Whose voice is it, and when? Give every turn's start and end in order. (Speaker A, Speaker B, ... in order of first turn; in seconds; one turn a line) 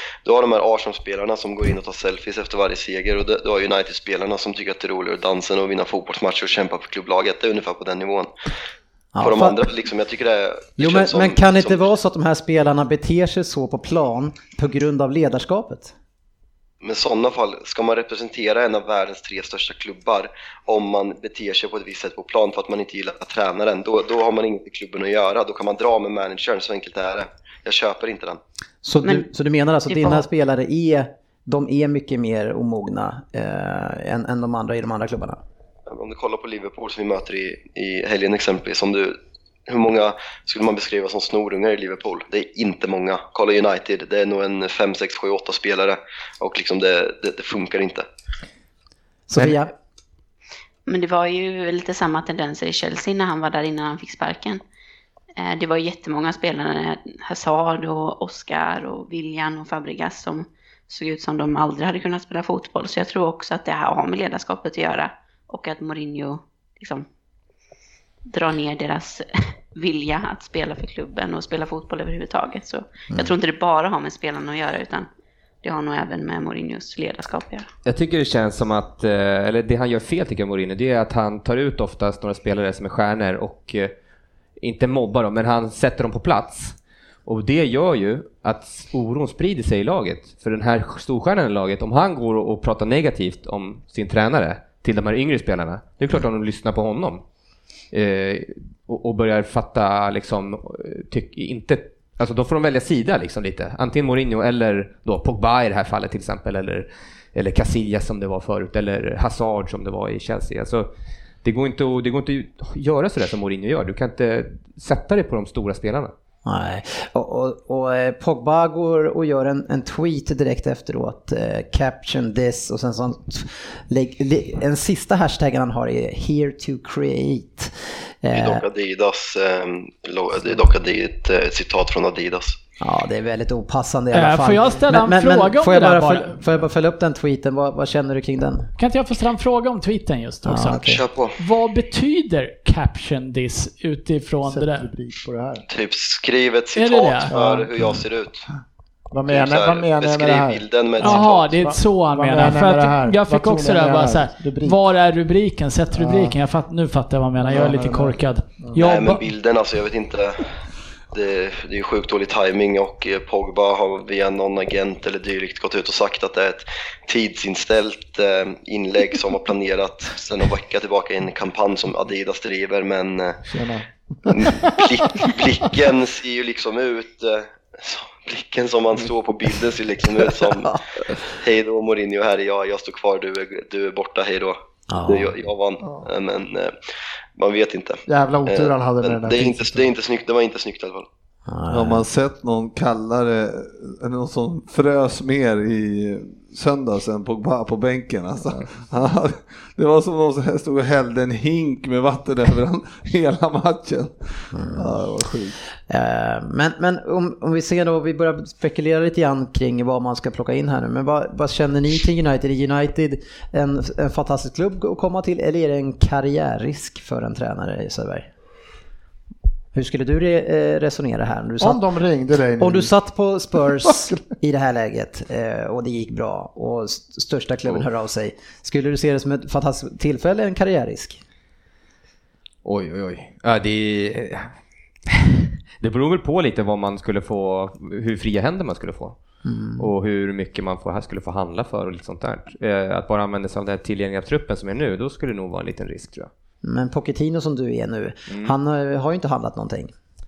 Speaker A: 0.2-8.3
Speaker B: 9.1-9.6
Speaker A: 9.2-11.9
Speaker B: 10.8-15.9
Speaker A: 16.8-28.4
Speaker B: 28.8-35.4
Speaker C: 29.0-29.3
Speaker C: 29.9-30.2
Speaker A: 35.9-39.1
Speaker A: 39.7-48.0
Speaker B: 49.3-49.7
Speaker C: 50.9-54.6
Speaker C: 55.4-67.1
Speaker C: 68.3-75.1
Speaker C: 75.6-77.7
Speaker D: 77.8-83.9
Speaker D: 84.6-97.2
Speaker D: 97.9-110.9
Speaker D: 111.4-116.1
Speaker B: 116.4-128.6
Speaker A: 128.3-132.6
Speaker B: 132.8-138.7
Speaker E: 134.1-136.4
Speaker E: 138.8-140.9
Speaker B: 140.4-141.0
Speaker A: 140.7-141.3
Speaker E: 141.4-144.9
Speaker F: 144.4-145.6
Speaker A: 145.7-148.4
Speaker E: 146.7-147.4
Speaker F: 147.3-147.9
Speaker F: 149.1-154.8
Speaker A: 149.3-151.5
Speaker E: 151.0-159.2
Speaker F: 155.9-156.3
Speaker F: 157.4-158.8
Speaker A: 158.7-160.5
Speaker A: 161.1-173.4
Speaker F: 173.5-175.3
Speaker A: 174.3-186.7
Speaker B: 184.9-185.3
Speaker A: 187.4-191.1
Speaker F: 188.1-189.9
Speaker B: 191.5-192.1
Speaker G: 191.7-205.6
Speaker B: 204.5-205.0
Speaker B: 205.9-218.3
Speaker B: 219.7-221.8
Speaker F: 221.6-222.9
Speaker B: 222.6-231.2
Speaker F: 223.8-224.2
Speaker D: 232.6-234.5
Speaker D: 235.1-239.2
Speaker B: 239.4-239.9
Speaker D: 239.8-246.3
Speaker B: 246.6-249.9
Speaker D: 248.3-248.5